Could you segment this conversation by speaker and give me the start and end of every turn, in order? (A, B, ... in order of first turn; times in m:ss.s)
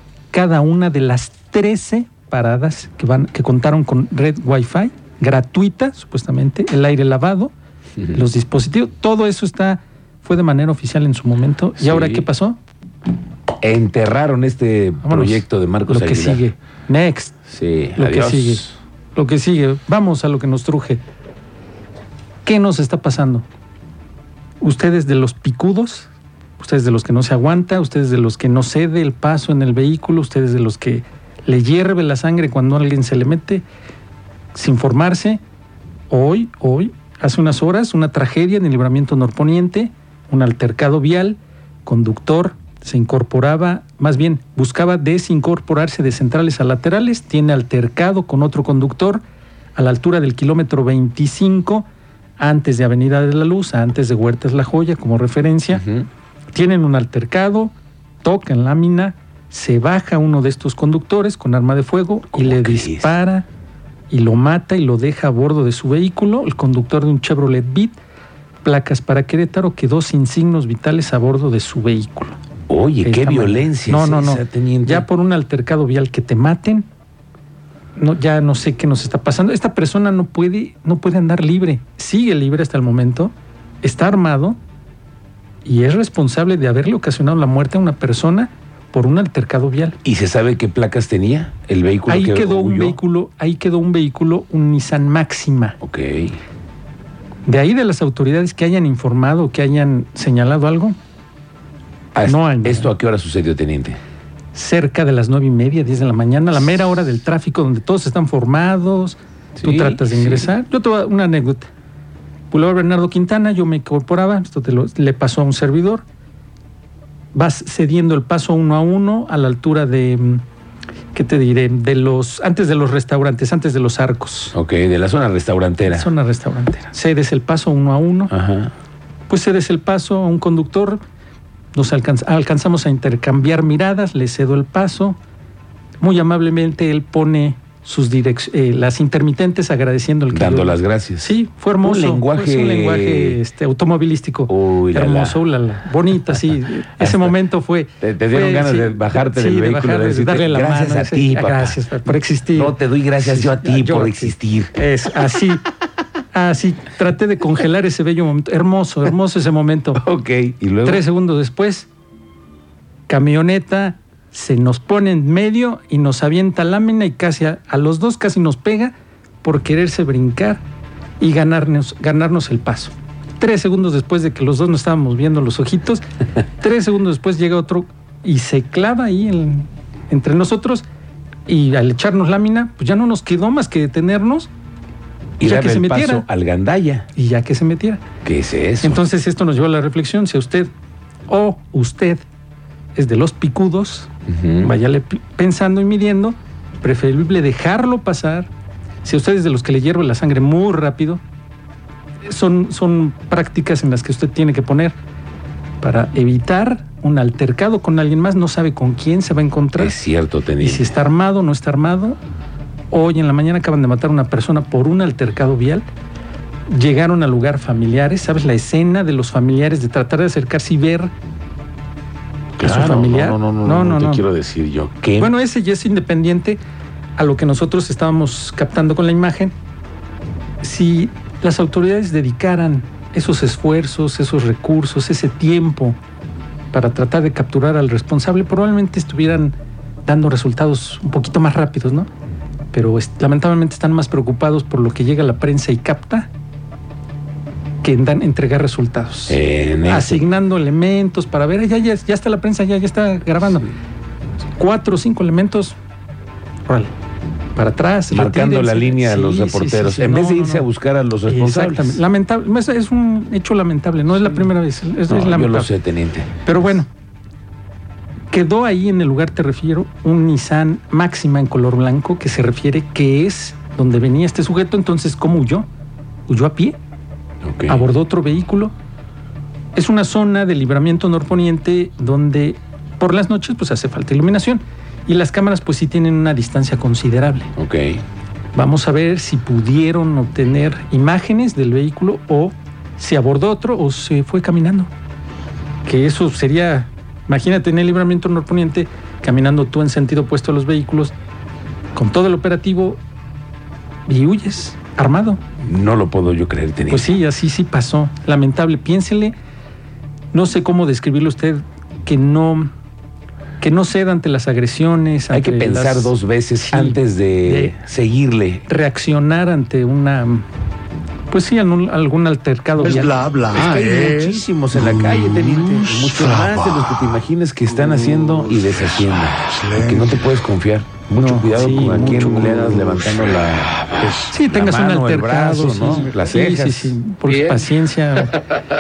0:00.3-0:07.5 A
0:08.1-0:12.6 A
0:11.8-0:12.3 B
0:13.6-0:16.4 B
0:15.0-0:17.4 A
0:17.5-0:18.8 B
0:18.0-0:21.0 A
0:22.4-0:23.5 A
0:24.6-0:33.6 A
0:34.5-0:35.4 A
0:36.1-0:49.2 A
0:49.8-0:51.9 A
0:52.4-0:55.8 A
0:55.7-0:56.1 B
0:56.5-1:03.5 A
1:02.3-1:03.1 B
1:04.1-1:08.0 A
1:08.6-1:12.4 A
1:12.7-1:15.1 B
1:13.0-1:16.9 A
1:18.0-1:24.6 A
1:25.6-1:30.0 A
1:30.0-1:33.0 B
1:32.1-1:35.8 A
1:35.8-1:36.4 B
1:37.5-1:41.0 A
1:42.2-1:44.0 B
1:42.2-1:42.9 A
1:44.5-1:51.7 A
1:49.6-1:50.5 B
1:52.5-1:56.0 A
1:57.3-2:00.4 A
2:01.1-2:04.6 A
2:04.5-2:06.1 B
2:05.9-2:08.3 A
2:08.3-2:08.7 B
2:09.3-2:11.0 A
2:11.8-2:15.2 A
2:16.0-2:35.6 A
2:20.3-2:23.4 B
2:24.5-2:25.4 B
2:27.0-2:27.4 B
2:28.0-2:31.8 B
2:32.5-2:34.8 B
2:36.3-2:40.0 A
2:40.0-2:41.0 B
2:40.8-2:41.9 A
2:43.1-2:50.6 A
2:51.2-2:56.0 A
2:56.6-3:00.8 A
3:01.5-3:04.5 A
3:05.4-3:07.1 B
3:05.4-3:06.3 A
3:07.1-3:08.0 A
3:08.2-3:09.0 B
3:08.8-3:10.7 A
3:11.3-3:12.2 A
3:13.0-3:14.1 A
3:14.3-3:14.7 B
3:14.6-3:18.5 A
3:19.0-3:21.2 A
3:22.2-3:25.0 A
3:25.8-3:30.0 A
3:29.8-3:30.9 B
3:30.6-3:32.2 A
3:32.9-3:35.9 A
3:36.7-3:41.1 A
3:42.6-3:45.3 B
3:42.6-3:44.2 A
3:45.2-3:46.6 A
3:47.2-3:49.6 A
3:50.6-3:56.0 A
3:56.7-4:02.1 A
4:02.7-4:06.3 A
4:07.8-4:13.7 A
4:09.3-4:10.2 B
4:14.6-4:15.8 A
4:16.7-4:16.9 A
4:17.6-4:20.7 A
4:18.1-4:22.0 B
4:21.3-4:25.7 A
4:25.1-4:26.4 B
4:26.4-4:26.9 A
4:28.3-4:35.7 A
4:36.3-4:36.8 A
4:37.4-4:37.8 B
4:37.7-4:38.7 A
4:39.8-4:47.5 A
4:47.6-4:48.0 B
4:48.5-4:54.9 A
4:55.8-5:01.1 A
5:02.0-5:03.0 A
5:04.1-5:05.4 A
5:05.6-5:07.1 B
5:06.9-5:09.3 A
5:10.3-5:12.7 A
5:13.6-5:17.8 A
5:15.3-5:18.6 B
5:18.7-5:20.5 A
5:21.3-5:23.2 A
5:23.5-5:37.0 B
5:31.2-5:32.8 A
5:34.3-5:38.4 A